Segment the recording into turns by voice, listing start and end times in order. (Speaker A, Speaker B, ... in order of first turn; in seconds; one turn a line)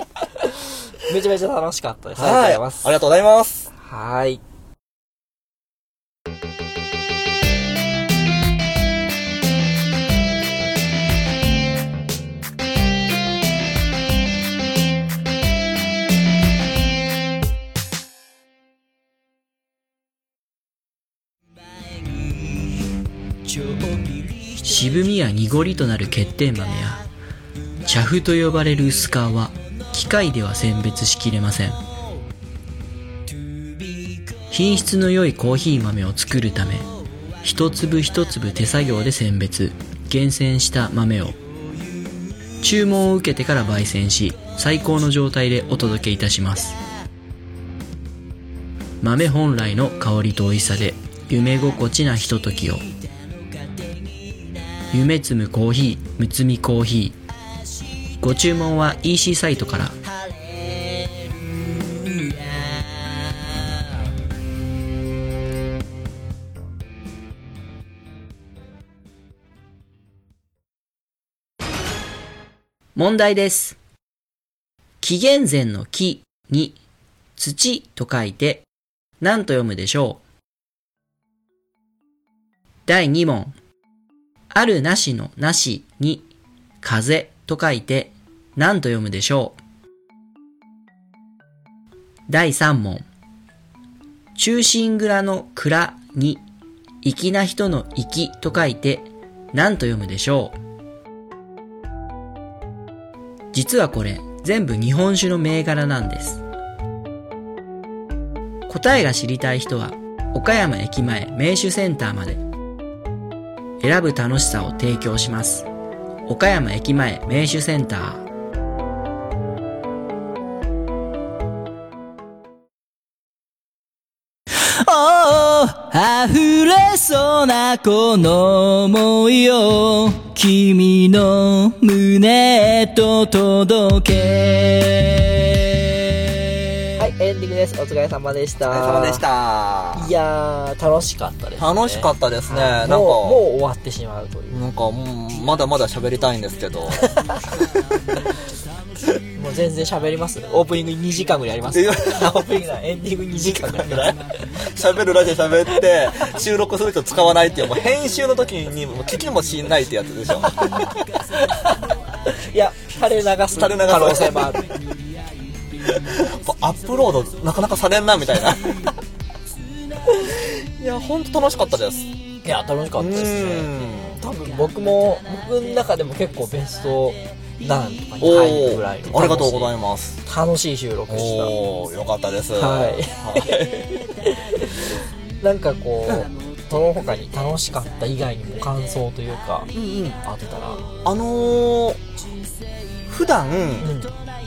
Speaker A: 0.4-2.9
Speaker B: 2.2-3.7
Speaker A: 3.7-4.4
Speaker C: 21.9-22.8
Speaker C: 23.4-25.1
Speaker D: 24.7-27.0
Speaker D: 27.9-31.8
Speaker C: 33.3-34.4
Speaker D: 34.5-36.9
Speaker D: 37.4-41.4
Speaker D: 42.6-46.8
Speaker D: 49.0-52.8
Speaker C: 53.6-54.0
Speaker D: 54.9-57.2
Speaker D: 58.2-60.0
Speaker C: 60.2-63.4
Speaker D: 73.0-73.8
Speaker D: 75.0-76.8
Speaker D: 77.4-78.7
Speaker D: 79.2-80.2
Speaker D: 82.9-83.5
Speaker D: 84.5-86.3
Speaker D: 86.8-89.6
Speaker D: 92.3-93.1
Speaker D: 94.4-96.4
Speaker D: 97.0-100.6
Speaker D: 103.5-106.4
Speaker D: 108.7-112.4
Speaker D: 113.8-115.7
Speaker D: 116.3-118.2
Speaker C: 124.6-136.4
Speaker A: 137.0-139.2
Speaker B: 138.7-140.1
Speaker A: 140.0-144.6
Speaker B: 141.6-143.4
Speaker B: 144.5-147.2
Speaker A: 149.4-154.3
Speaker B: 151.7-152.5
Speaker B: 153.4-160.9
Speaker A: 160.4-164.7
Speaker B: 163.5-164.6
Speaker B: 166.0-168.9
Speaker B: 170.2-172.1
Speaker A: 172.4-179.7
Speaker B: 173.0-174.2
Speaker B: 178.2-180.2
Speaker A: 180.3-181.5
Speaker B: 181.1-183.9
Speaker A: 182.6-190.9
Speaker B: 189.7-190.2
Speaker B: 191.0-192.0
Speaker B: 193.1-193.9
Speaker A: 193.8-194.1